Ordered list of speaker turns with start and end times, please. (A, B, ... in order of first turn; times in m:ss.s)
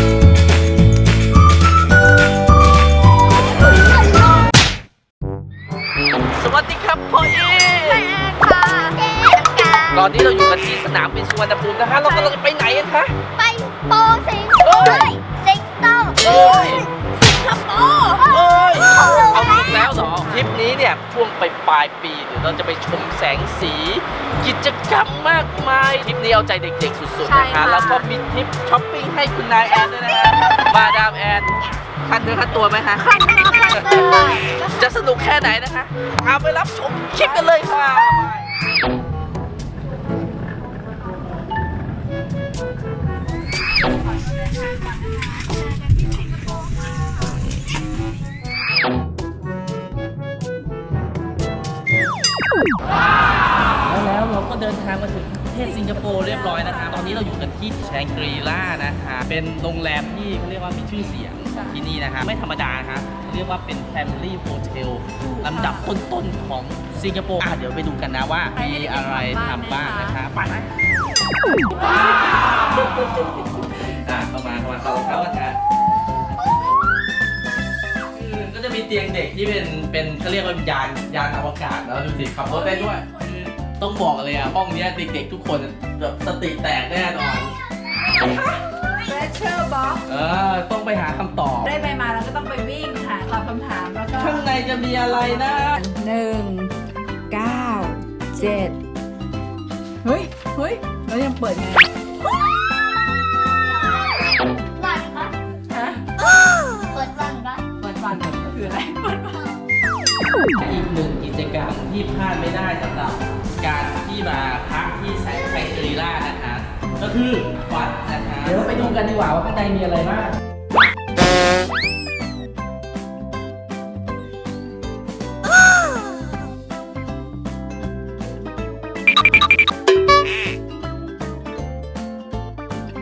0:06.3-0:08.1 A
0:07.6-0:09.0 B
0:08.9-0:10.1 C
0:09.9-0:13.1 A
0:11.9-0:12.4 B
0:13.4-0:16.8 C
0:14.6-0:15.1 A
0:16.2-0:16.8 A
0:16.2-0:18.4 B
0:18.2-0:19.9 C
0:18.2-0:31.5 A
0:19.9-0:20.5 B
0:27.2-0:28.1 B
0:32.0-0:34.1 A
0:33.0-0:34.8 B
0:33.3-0:34.5 C
0:34.6-0:38.5 A
0:37.4-0:38.1 B
0:53.8-1:10.7 A
0:55.6-0:57.3 B
1:01.4-1:01.8 B
1:05.2-1:06.0 B
1:08.5-1:10.2 B
1:11.8-1:15.6 A
1:18.1-1:27.5 A
1:22.4-1:23.4 B
1:27.3-1:29.1 C
1:28.1-1:30.0 B
1:30.0-1:31.7 A
1:31.6-1:34.4 B
1:34.2-1:35.8 A
1:35.3-1:36.7 B
1:37.3-1:38.8 B
1:40.0-1:41.9 B
1:43.6-1:45.4 C
1:45.7-1:46.0 B
1:46.2-1:47.6 C
1:47.8-1:49.4 B
1:50.6-2:00.4 A
1:55.4-1:55.9 C